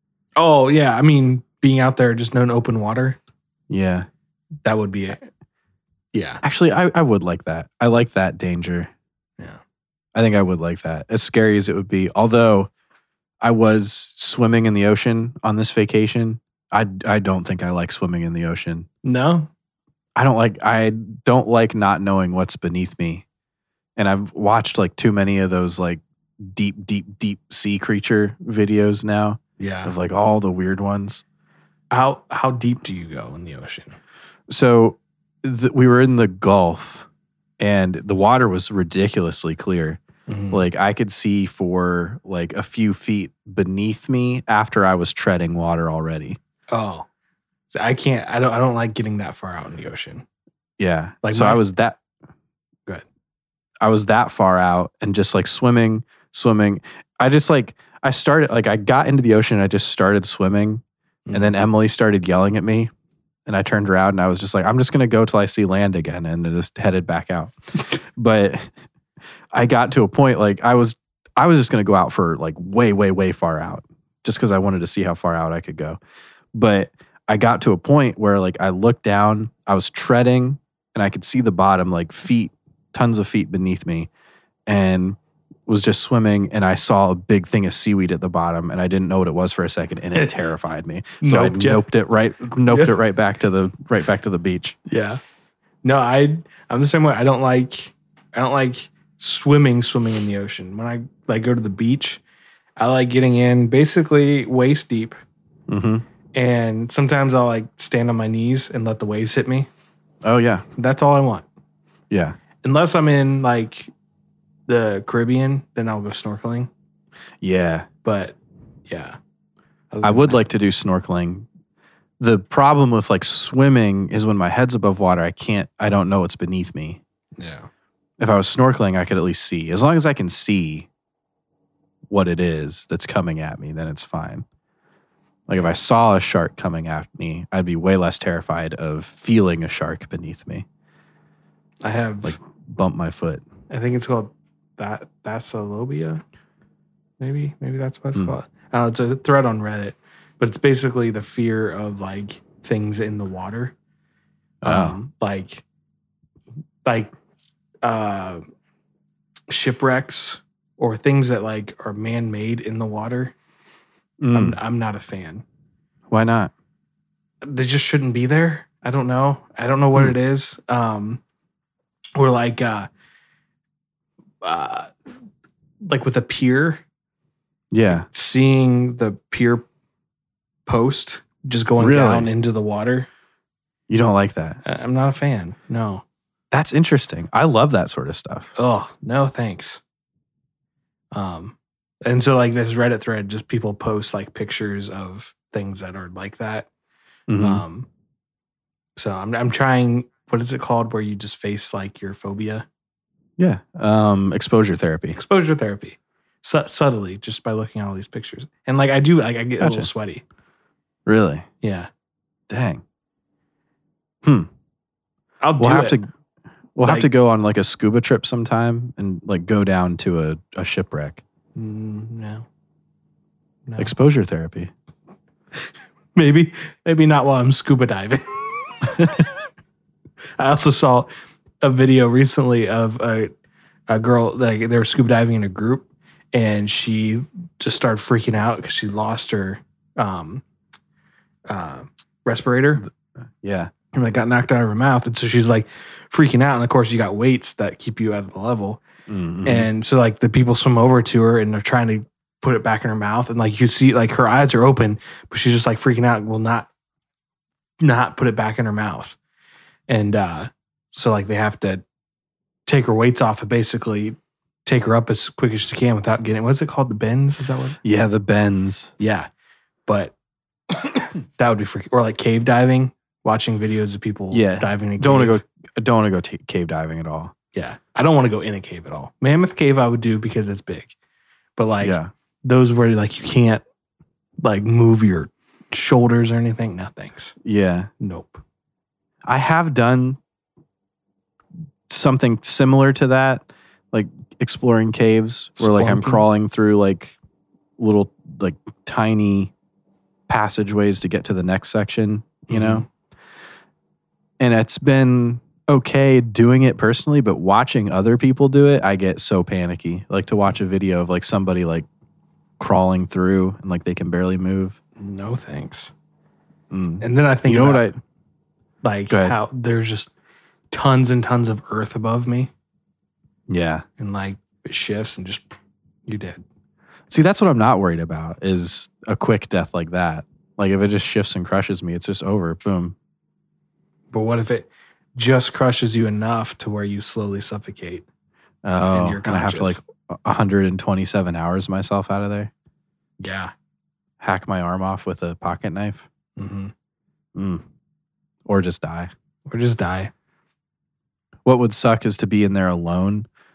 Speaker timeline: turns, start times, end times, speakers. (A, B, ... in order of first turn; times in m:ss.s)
0:00.4-0:03.2 A
0:03.7-0:04.1 B
0:04.6-0:05.2 A
0:06.1-0:06.4 A
0:06.4-0:08.9 B
0:10.1-0:12.7 B
0:13.4-0:18.9 B
0:19.0-0:19.5 A
0:20.2-0:23.2 B
0:24.0-0:31.2 B
0:29.6-0:29.9 A
0:31.9-0:34.0 A
0:34.5-0:37.1 B
0:37.6-0:40.0 B
0:40.3-0:40.6 A
0:40.5-0:46.4 B
0:46.7-0:47.1 A
0:47.7-0:50.2 A
0:50.8-0:52.0 B
0:51.2-0:51.6 A
0:53.8-1:02.9 B
1:01.3-1:01.5 A
1:03.5-1:08.7 B
1:09.5-1:16.0 B
1:16.5-1:24.1 B
1:24.7-1:34.8 B
1:31.2-1:31.8 A
1:32.7-1:32.9 A
1:34.9-1:35.2 A
1:35.8-1:42.2 A
1:42.8-1:45.2 A
1:45.7-1:46.0 B
1:46.3-1:49.7 A
1:50.2-1:50.6 B
1:50.8-1:51.5 A
1:52.1-1:52.4 B
1:52.6-1:53.9 A
1:54.7-1:56.7 A
1:57.4-1:57.9 B
1:58.0-1:59.2 A
1:59.9-2:00.4 A
2:00.0-2:01.5 B
2:02.2-2:07.0 B
2:07.4-2:07.7 A
2:08.2-2:10.9 B
2:12.1-2:14.4 B
2:15.5-2:20.6 B
2:21.8-2:22.4 A
2:22.2-2:23.4 B
2:23.7-2:26.2 A
2:27.2-2:33.7 A
2:34.6-2:35.0 B
2:34.6-2:35.6 A
2:36.8-2:37.1 A
2:37.8-2:38.4 A
2:39.5-2:43.3 A
2:44.2-2:44.6 B
2:44.3-2:45.4 A
2:46.1-2:46.5 B
2:47.4-2:51.2 A
2:52.1-2:52.9 A
2:54.4-2:54.9 A
2:55.8-2:56.8 A
2:57.7-2:58.1 B
2:57.9-2:59.6 A
3:00.6-3:03.1 A
3:01.8-3:02.3 B
3:03.9-3:04.6 B
3:04.6-3:06.0 A
3:06.5-3:08.5 B
3:08.6-3:09.8 A
3:11.1-3:16.7 A
3:17.3-3:17.6 B
3:17.4-3:17.9 A
3:19.0-3:22.6 A
3:23.4-3:25.2 B
3:25.1-3:30.2 A
3:29.6-3:29.9 B
3:31.0-3:31.5 B
3:31.6-3:31.9 A
3:32.5-3:32.8 B
3:34.2-3:34.5 B
3:35.4-3:36.0 A
3:35.6-3:36.1 B
3:36.8-3:41.2 B
3:36.8-3:37.1 A
3:41.5-3:42.4 A
3:43.7-3:43.9 A
3:43.8-3:44.7 B
3:46.1-3:48.3 A
3:50.4-3:51.1 A
3:51.6-3:53.3 A
3:53.9-4:00.4 A
4:01.5-4:02.8 A
4:03.4-4:03.7 B
4:03.9-4:08.8 A
4:09.1-4:09.7 B
4:09.4-4:16.7 A
4:17.8-4:19.2 A
4:19.9-4:21.8 A
4:22.6-4:27.8 A
4:27.8-4:28.9 B
4:29.0-4:29.3 A
4:29.9-4:30.1 A
4:30.7-4:35.4 A
4:34.3-4:37.3 B
4:37.5-4:40.9 A
4:41.6-4:43.6 A
4:41.8-4:42.1 B
4:44.4-4:47.3 A
4:47.4-4:47.9 B
4:48.0-4:48.4 A
4:49.2-4:50.2 B
4:51.9-4:57.2 B
4:55.6-4:56.2 A
4:57.8-4:59.5 B
5:00.3-5:02.8 B
5:02.5-5:02.9 A
5:04.4-5:11.9 B
5:12.6-5:14.8 B
5:15.0-5:15.9 A
5:16.7-5:18.0 B
5:17.0-5:17.9 A
5:18.8-5:20.1 A
5:19.1-5:19.3 B
5:20.7-5:22.5 A
5:23.5-5:23.8 B
5:24.0-5:25.5 A
5:26.1-5:26.4 A
5:27.1-5:33.0 B
5:34.1-5:38.0 A
5:38.6-5:42.5 B
5:38.9-5:39.8 A
5:43.2-5:43.5 A
5:44.2-5:46.1 B
5:46.4-5:46.7 A
5:47.3-5:47.6 B
5:48.4-5:49.1 B
5:49.5-5:50.1 A
5:51.4-5:53.3 B